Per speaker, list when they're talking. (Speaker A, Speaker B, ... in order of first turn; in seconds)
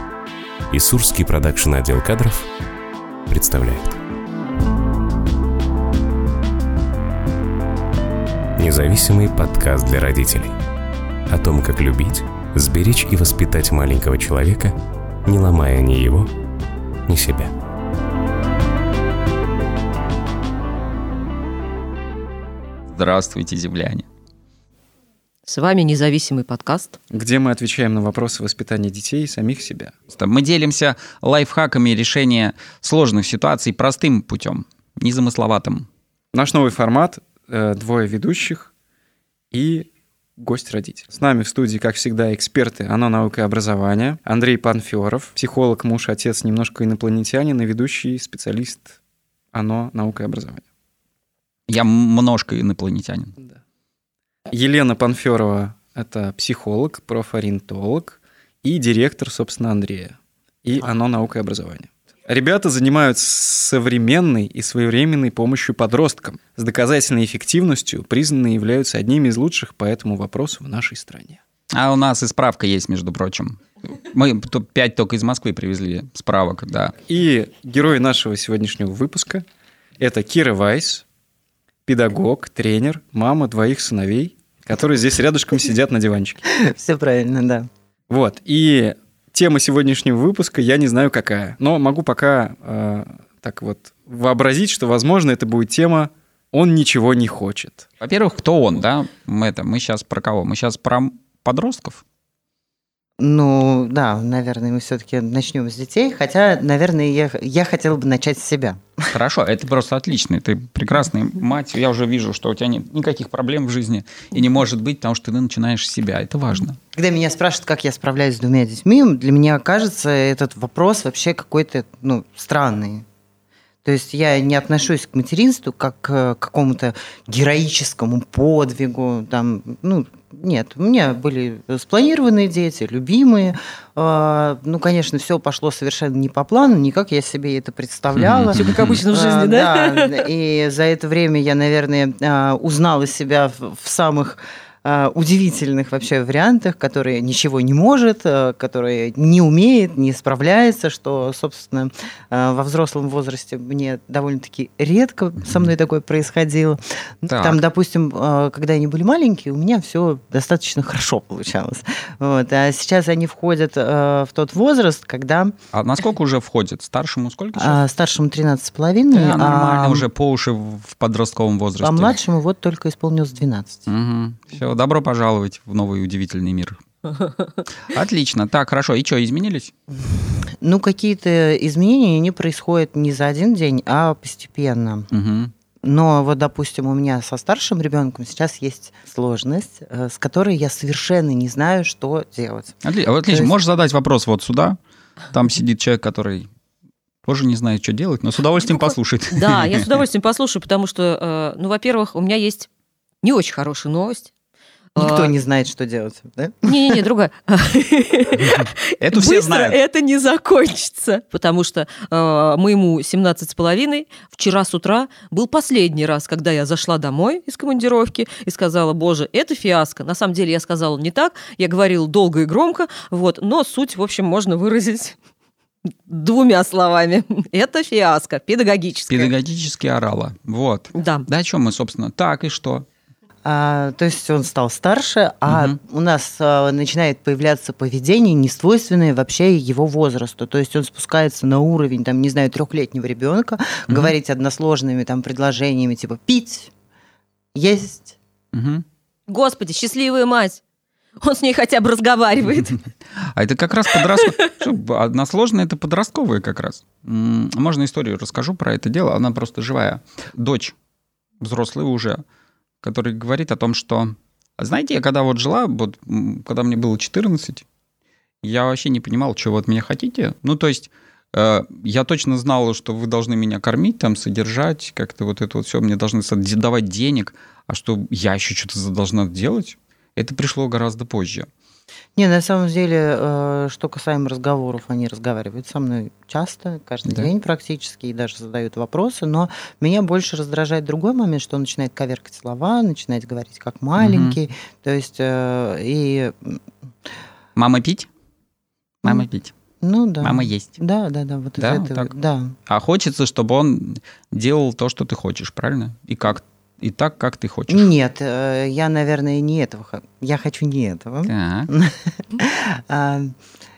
Speaker A: 0.7-2.5, 3.3-4.0, 8.6-10.6, 11.3-16.3, 17.1-17.5
Speaker B: 22.9-24.1, 30.1-35.9, 51.7-53.3, 71.7-77.0, 98.0-102.0, 109.1-116.8, 138.2-139.0, 157.3-157.6, 165.7-167.8, 169.1-172.2, 173.9-176.8, 177.9-179.7, 185.1-185.5, 192.8-194.8, 195.3-196.5, 197.2-200.0, 208.5-209.8, 229.1-232.8, 235.4-235.8, 243.9-244.1, 248.5-248.8, 253.2-260.7, 261.4-262.2, 262.8-267.6, 268.4-281.5, 294.0-294.4, 297.6-298.1, 299.0-299.5, 300.2-300.8, 301.6-302.1, 302.7-307.9, 311.2-311.7
Speaker C: 25.5-27.0, 138.5-140.2, 199.3-202.7, 203.2-204.3, 205.0-205.3, 206.6-225.2, 226.1-229.3, 230.9-231.3, 249.3-250.6, 251.2-252.8, 254.0-254.5
Speaker D: 27.1-29.9, 36.3-38.7, 39.5-49.0, 49.5-50.6, 54.5-71.4, 77.0-79.4, 80.0-81.0, 81.8-86.4, 88.1-97.8
Speaker E: 86.5-87.7, 103.2-109.1, 116.9-123.0, 123.8-138.6, 139.1-165.5, 167.6-170.1, 171.8-173.9, 179.9-185.1, 185.8-192.8, 205.0-207.0, 233.4-246.7, 247.5-248.2, 282.1-296.6, 299.8-302.6, 307.7-313.4